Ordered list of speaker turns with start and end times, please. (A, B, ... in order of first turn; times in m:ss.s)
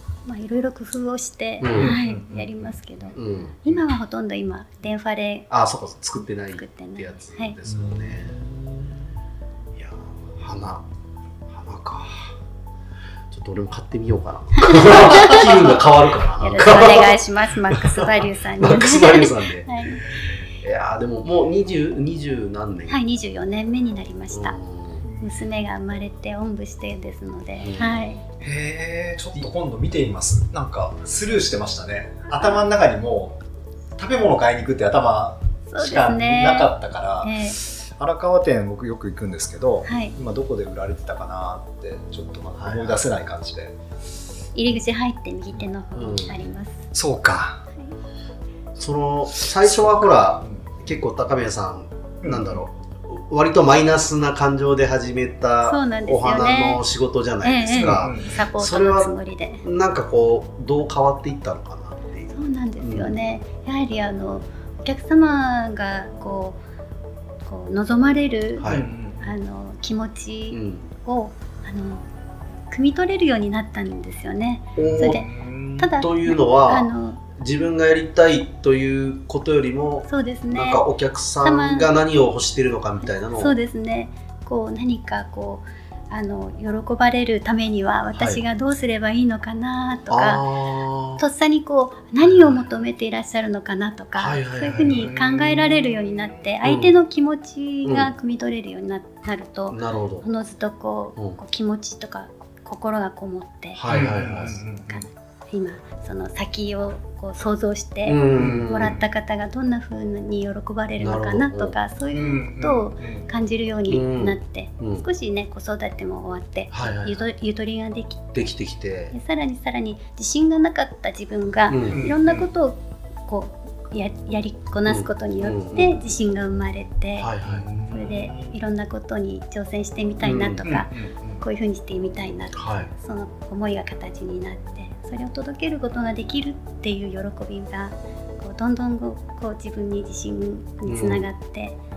0:00.2-0:05.5 A
0:01.6-0:02.0 B
0:01.7-0:02.7 C
0:03.1-0:03.6 B
0:05.5-0:08.4 B
0:06.2-0:07.6 A
0:07.6-0:08.9 C
0:09.7-0:10.9 B
0:11.5-0:12.4 B
0:13.3-0:19.7 B
0:14.6-0:15.8 A
0:16.4-0:20.3 A
0:20.2-0:23.0 B
0:22.9-0:24.5 A
0:24.3-0:25.0 B
0:25.0-0:25.4 C
0:25.2-0:28.2 A
0:27.6-0:28.0 B
0:28.4-0:33.4 C
0:34.0-0:43.7 C
0:35.7-0:37.6 A
0:39.8-0:40.1 A
0:42.6-0:43.0 B
0:44.5-0:46.8 A
0:46.0-0:46.4 B
0:46.9-0:47.6 C
0:48.8-1:03.2 B
0:49.6-0:50.8 C
0:52.2-0:52.6 C
0:55.6-0:56.8 A
0:57.4-0:59.6 A
0:57.7-0:58.4 C
1:02.3-1:06.6 A
1:07.4-1:12.0 A
1:08.6-1:08.8 B
1:08.6-1:09.3 C
1:10.5-1:10.9 B
1:12.7-1:17.2 A
1:14.8-1:15.2 B
1:14.8-1:15.9 C
1:16.0-1:23.6 B
1:20.0-1:20.8 A
1:21.4-1:21.9 A
1:23.3-1:30.4 A
1:28.1-1:28.4 B
1:30.1-1:31.2 B
1:31.2-1:58.4 A
1:34.2-1:35.1 B
1:34.9-1:36.4 C
1:36.6-1:36.9 B
1:37.8-1:38.1 B
1:39.7-1:40.3 B
1:43.8-1:44.6 B
1:43.9-1:45.0 C
1:48.0-1:49.0 B
1:48.4-1:49.0 C
1:51.0-1:51.8 B
1:52.1-1:53.3 C
1:53.9-1:55.0 B
1:56.7-1:57.2 B
1:58.3-1:59.1 B
1:59.1-2:07.3 A
2:01.7-2:02.1 B
2:01.9-2:02.5 C
2:04.9-2:06.0 B
2:07.2-2:07.6 B
2:07.4-2:08.6 C
2:07.9-2:21.8 A
2:10.2-2:10.7 B
2:10.6-2:11.4 C
2:12.5-2:12.9 B
2:20.8-2:21.3 B